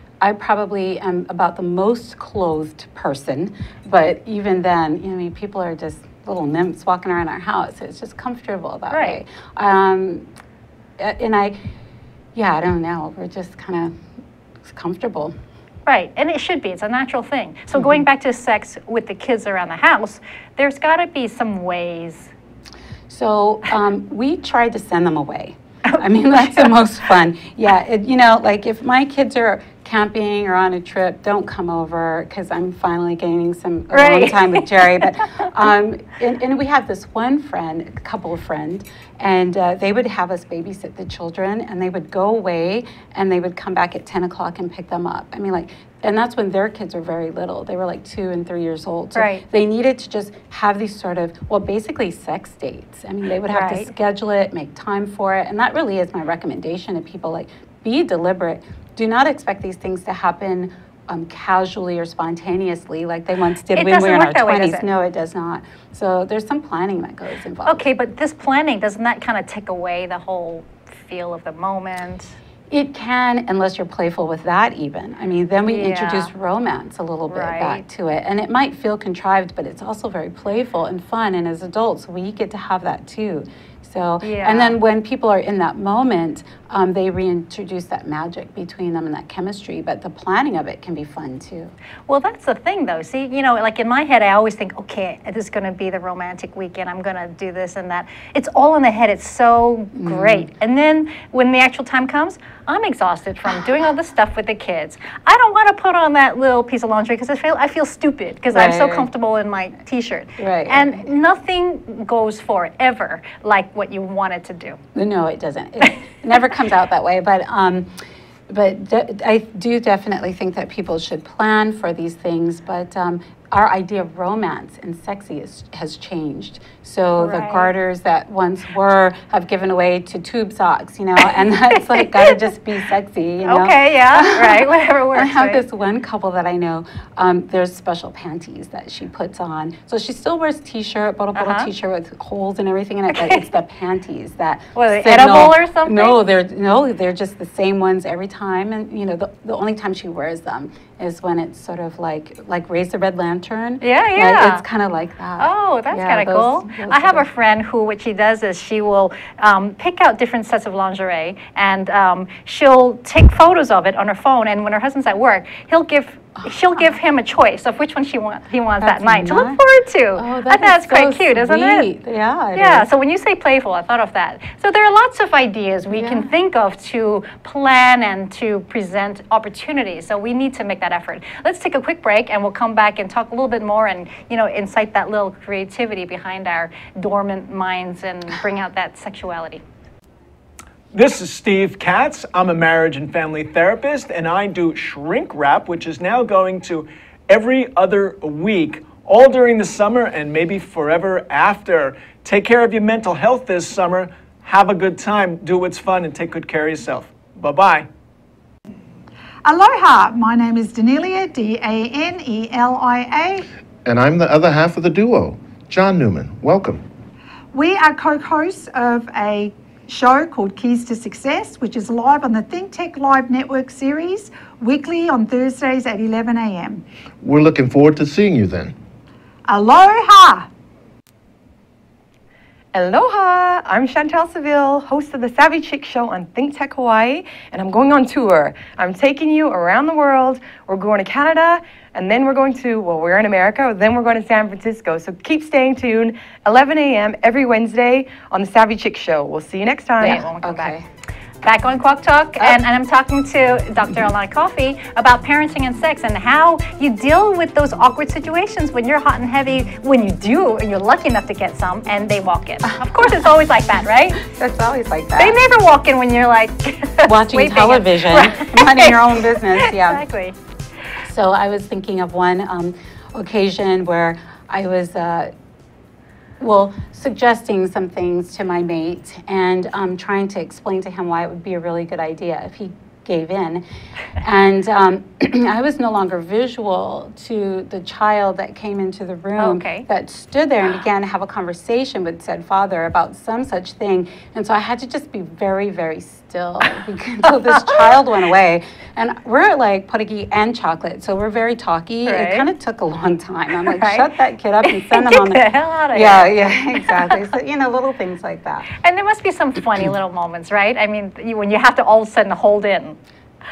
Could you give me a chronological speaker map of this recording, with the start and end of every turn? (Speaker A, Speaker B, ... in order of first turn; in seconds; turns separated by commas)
Speaker A: 0.2-10.3, Speaker B: 8.9-9.2, Speaker A: 11.0-11.6, Speaker A: 12.3-13.9, Speaker A: 14.6-15.3, Speaker B: 15.9-22.3, Speaker A: 23.1-67.9, Speaker B: 25.9-26.7, Speaker B: 33.9-35.2, Speaker B: 49.1-49.5, Speaker B: 53.5-53.9, Speaker B: 63.7-64.9, Speaker B: 67.7-72.3, Speaker A: 72.7-91.7, Speaker B: 75.6-76.3, Speaker B: 77.3-77.8, Speaker B: 84.2-84.8, Speaker B: 92.1-114.8, Speaker A: 99.9-100.5, Speaker A: 108.5-109.1, Speaker A: 110.4-111.0, Speaker A: 115.0-117.9, Speaker A: 118.5-157.3, Speaker B: 127.2-127.7, Speaker B: 132.0-132.4, Speaker B: 133.4-135.6, Speaker B: 141.3-141.7, Speaker B: 143.1-143.5, Speaker B: 144.8-146.2, Speaker B: 153.8-154.6, Speaker B: 155.4-171.9, Speaker A: 166.4-166.8, Speaker A: 168.8-169.6, Speaker A: 170.2-172.9, Speaker B: 172.6-189.6, Speaker A: 175.9-176.3, Speaker C: 190.9-207.9, Speaker D: 209.4-213.4, Speaker E: 213.8-216.8, Speaker D: 217.5-226.8, Speaker E: 227.2-228.8, Speaker D: 229.5-230.5, Speaker F: 232.7-250.2, Speaker B: 250.0-250.8, Speaker A: 250.0-250.8, Speaker B: 251.4-264.2, Speaker A: 264.2-265.4, Speaker B: 265.2-269.0, Speaker A: 267.0-270.0, Speaker B: 269.6-270.4, Speaker A: 271.0-275.3, Speaker A: 276.4-283.6, Speaker A: 284.2-308.7, Speaker B: 289.4-289.9, Speaker B: 297.5-298.0, Speaker B: 302.1-302.5, Speaker B: 303.6-304.1, Speaker B: 304.6-307.3, Speaker B: 308.8-313.0